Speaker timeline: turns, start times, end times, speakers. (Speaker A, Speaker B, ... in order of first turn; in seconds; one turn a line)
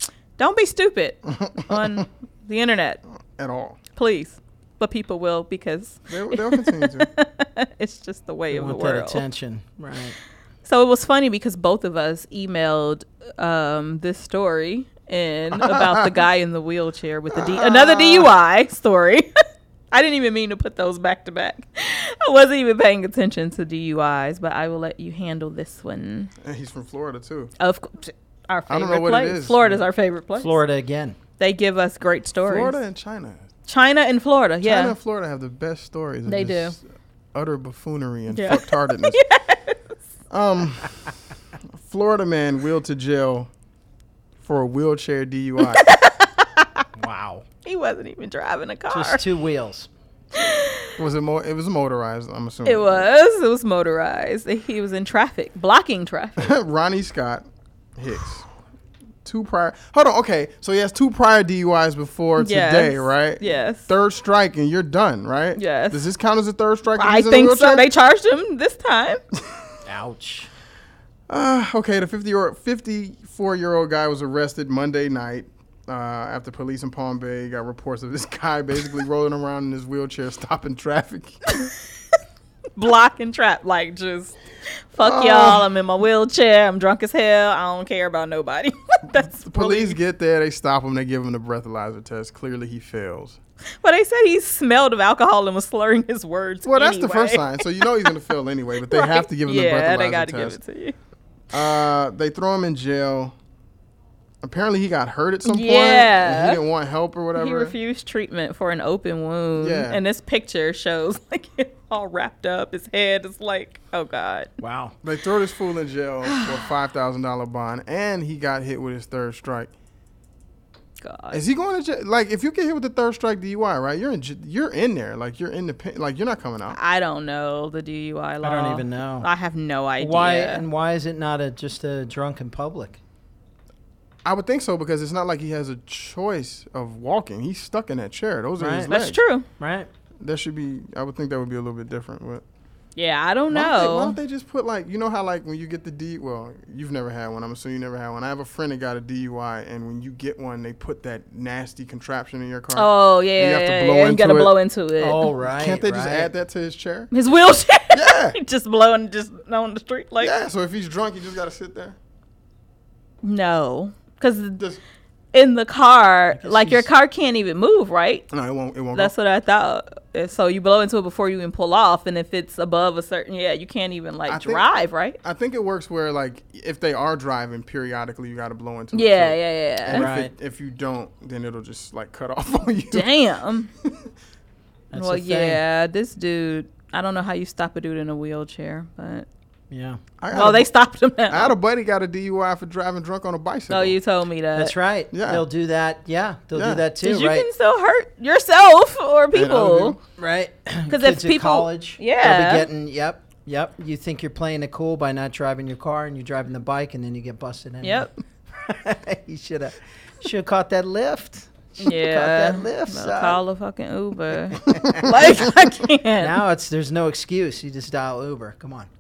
Speaker A: 0.4-3.0
Speaker B: 1.3-2.0
Speaker B: 3.4-3.8
Speaker A: 4.0-9.2
Speaker B: 6.1-7.1
Speaker C: 8.5-10.1
Speaker A: 10.6-19.3
Speaker B: 15.6-16.1
Speaker B: 17.4-18.3
Speaker A: 19.9-26.3
Speaker B: 26.4-27.5
Speaker A: 27.6-30.6
Speaker B: 28.7-29.8
Speaker C: 30.4-31.2
Speaker A: 31.4-32.8
Speaker B: 32.5-33.4
Speaker A: 33.7-34.9
Speaker B: 34.6-36.8
Speaker A: 36.2-36.8
Speaker B: 37.3-39.2
Speaker A: 38.3-39.8
Speaker B: 40.3-41.0
Speaker B: 41.8-43.5
Speaker B: 44.4-45.8
Speaker A: 45.6-46.8
Speaker C: 47.0-47.4
Speaker A: 47.6-49.2
Speaker C: 48.9-49.9
Speaker A: 50.4-50.9
Speaker B: 51.0-53.0
Speaker A: 52.6-56.5
Speaker B: 56.4-57.4
Speaker B: 58.0-58.5
Speaker B: 59.2-67.8
Speaker A: 62.4-63.9
Speaker A: 65.5-66.0
Speaker A: 67.0-69.2
Speaker C: 69.8-70.5
Speaker B: 71.3-81.5
Speaker A: 82.8-84.3
Speaker A: 84.9-90.0
Speaker B: 85.0-85.7
Speaker B: 89.1-93.4
Speaker A: 93.8-98.1
Speaker B: 96.7-100.6
Speaker A: 98.9-100.9
Speaker B: 101.5-103.3
Speaker B: 104.4-107.7
Speaker A: 105.4-106.6
Speaker A: 107.3-114.5
Speaker B: 109.6-110.0
Speaker C: 114.6-114.9
Speaker B: 115.0-119.7
Speaker A: 116.2-116.7
Speaker A: 121.0-121.4
Speaker B: 121.3-126.8
Speaker A: 126.7-130.6
Speaker C: 128.4-129.3
Speaker C: 130.0-133.0
Speaker B: 134.2-139.2
Speaker C: 138.6-138.9
Speaker A: 138.9-139.4
Speaker C: 139.6-139.9
Speaker B: 140.2-142.4
Speaker A: 142.9-144.2
Speaker B: 143.5-154.5
Speaker A: 152.7-155.3
Speaker C: 155.0-156.3
Speaker B: 155.6-157.1
Speaker A: 157.1-160.3
Speaker B: 157.9-158.4
Speaker B: 160.2-161.9
Speaker A: 163.2-164.6
Speaker A: 165.3-168.3
Speaker C: 166.3-166.9
Speaker B: 168.3-169.1
Speaker A: 168.9-175.2
Speaker B: 174.3-174.6
Speaker B: 175.2-183.1
Speaker A: 178.9-180.1
Speaker C: 179.9-180.3
Speaker A: 182.9-183.7
Speaker B: 183.8-184.1
Speaker C: 184.9-185.6
Speaker A: 184.9-189.3
Speaker C: 189.7-190.0
Speaker B: 190.2-190.7
Speaker A: 190.3-191.5
Speaker B: 191.3-194.0
Speaker A: 193.7-194.7
Speaker C: 194.5-197.5
Speaker B: 195.1-195.4
Speaker B: 196.5-196.8
Speaker A: 197.0-199.9
Speaker B: 199.3-200.0
Speaker C: 200.2-213.4
Speaker A: 200.9-202.7
Speaker A: 207.8-208.1
Speaker A: 211.8-216.4
Speaker C: 214.6-215.2
Speaker B: 214.6-215.5
Speaker C: 216.2-218.9